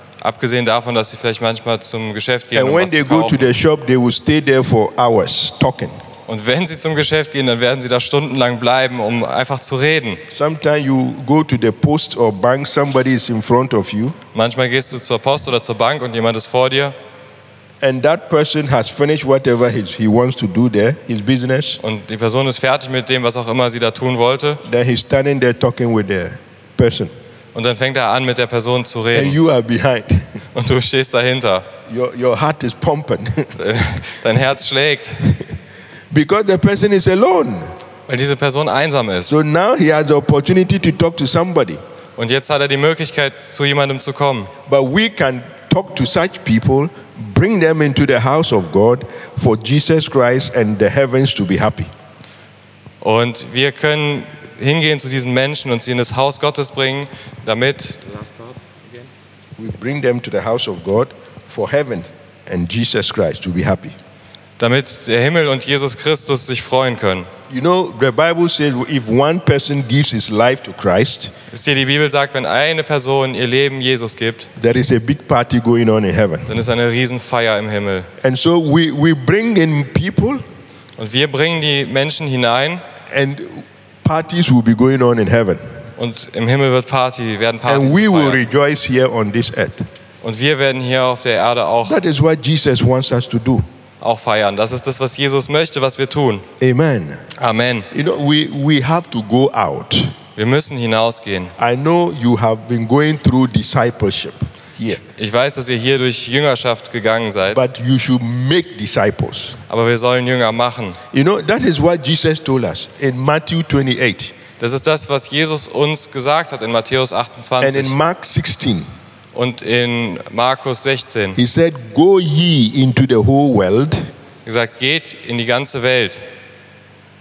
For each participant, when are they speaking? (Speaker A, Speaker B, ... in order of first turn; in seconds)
Speaker A: 0.2-3.6, 6.3-10.2, 14.3-16.9, 21.8-24.6, 27.5-29.4, 30.5-31.7, 33.6-35.2, 38.1-39.4, 42.2-44.5, 53.0-59.0, 64.6-67.3, 71.5-74.5, 76.5-78.1, 81.0-82.8, 86.0-88.4, 90.2-92.0, 94.0-96.5, 97.4-97.9, 100.4-101.5, 105.0-107.6, 109.7-111.0, 114.6-118.0, 119.3-121.4, 124.5-126.2
Speaker B: 2.5-6.0, 10.3-14.2, 17.8-21.8, 24.6-27.1, 29.1-30.3, 31.9-33.5, 36.1-37.7, 39.3-41.8, 44.7-51.9, 59.6-63.9, 67.5-71.3, 74.6-76.5, 78.2-80.4, 83.1-85.6, 87.7-89.9, 91.9-93.7, 96.6-97.2, 97.9-100.2, 101.6-105.0, 107.5-109.6, 111.1-114.3, 117.6-118.9, 121.4-124.0